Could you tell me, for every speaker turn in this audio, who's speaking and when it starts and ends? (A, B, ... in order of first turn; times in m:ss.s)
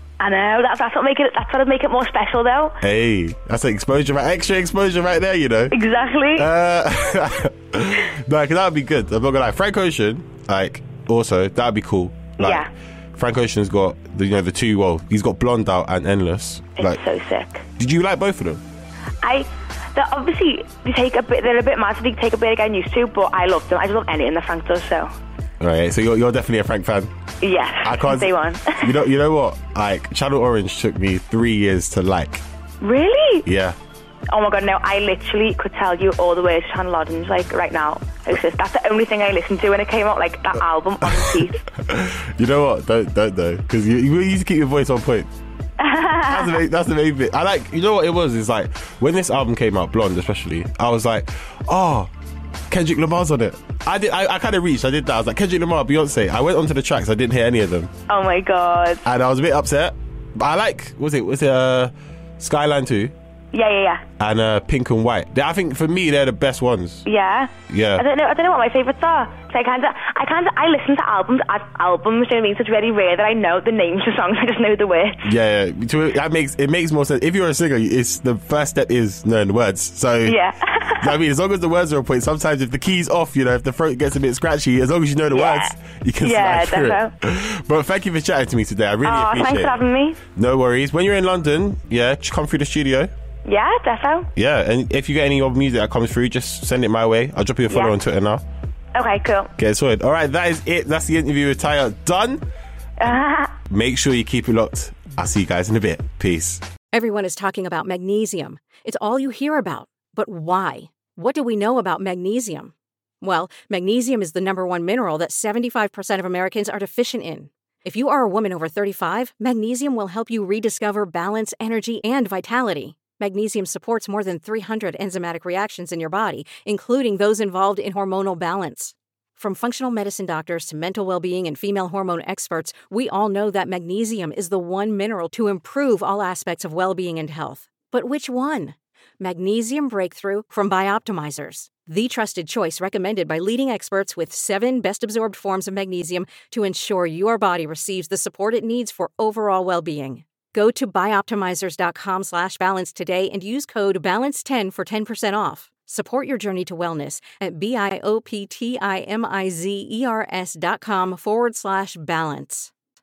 0:00.2-0:02.8 A
0:02.8-0:05.8 B
0:05.7-0:06.5 A
0:06.4-0:17.0 B
0:12.4-0:12.7 A
0:16.8-0:17.6 A
0:17.8-0:18.6 B
0:19.2-0:25.1 A
0:25.6-0:27.1 B
0:27.4-0:29.0 A
0:27.8-0:32.4 B
0:32.8-0:33.4 A
0:33.4-0:33.8 B
0:34.3-0:41.6 A
0:41.8-0:45.3 B
0:45.8-0:46.5 A
0:46.3-0:52.1 B
0:52.7-0:57.9 B
0:58.1-0:59.0 A
0:59.0-1:03.1 B
1:03.5-1:04.0 A
1:04.2-1:07.0 B
1:07.0-1:15.3 A
1:07.7-1:08.0 B
1:15.2-1:20.4 B
1:20.2-1:21.1 A
1:21.0-1:29.8 B
1:25.3-1:27.1 A
1:29.0-1:30.2 A
1:30.4-1:33.1 B
1:33.4-1:34.3 A
1:34.4-1:38.4 B
1:37.7-1:37.9 A
1:38.9-1:39.5 A
1:39.6-1:42.4 B
1:43.0-1:43.6 A
1:43.0-1:46.6 B
1:46.9-2:42.7 C